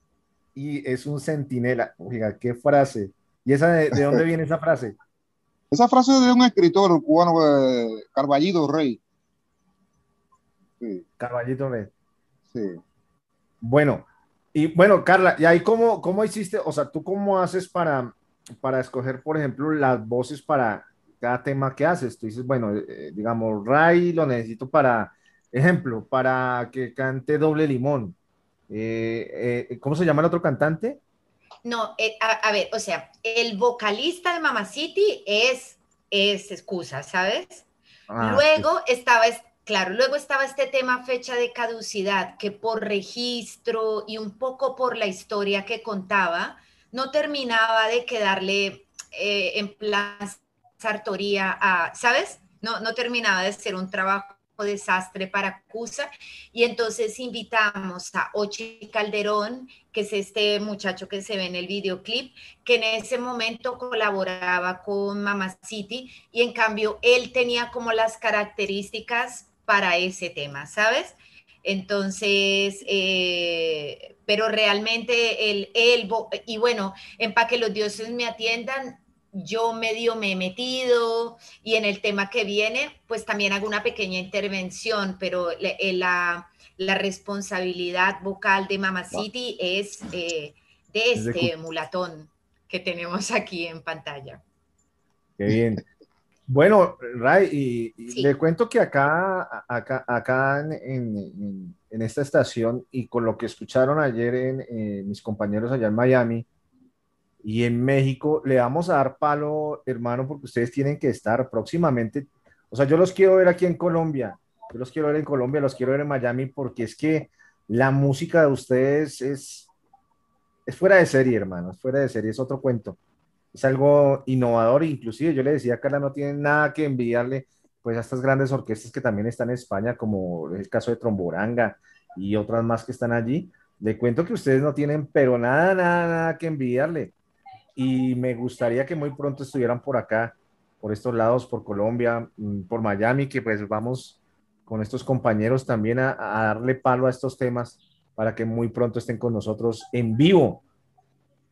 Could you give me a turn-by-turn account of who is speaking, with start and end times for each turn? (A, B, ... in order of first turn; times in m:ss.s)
0:00.5-0:05.0 A
0:05.7-0:09.0 B
0:11.2-0:11.9 A
0:12.5-0:12.8 B
0:13.6-0:28.2 A
0:28.7-0:31.0 A
0:31.6-0:37.6 C
0:38.1-0:38.7 A
0:38.2-1:34.4 C
1:31.2-1:31.5 A
1:35.4-1:35.8 A
1:36.5-1:46.4 A
1:47.4-1:59.7 A
2:00.6-2:03.0 A
2:03.5-2:17.1 A
2:17.8-2:30.6 A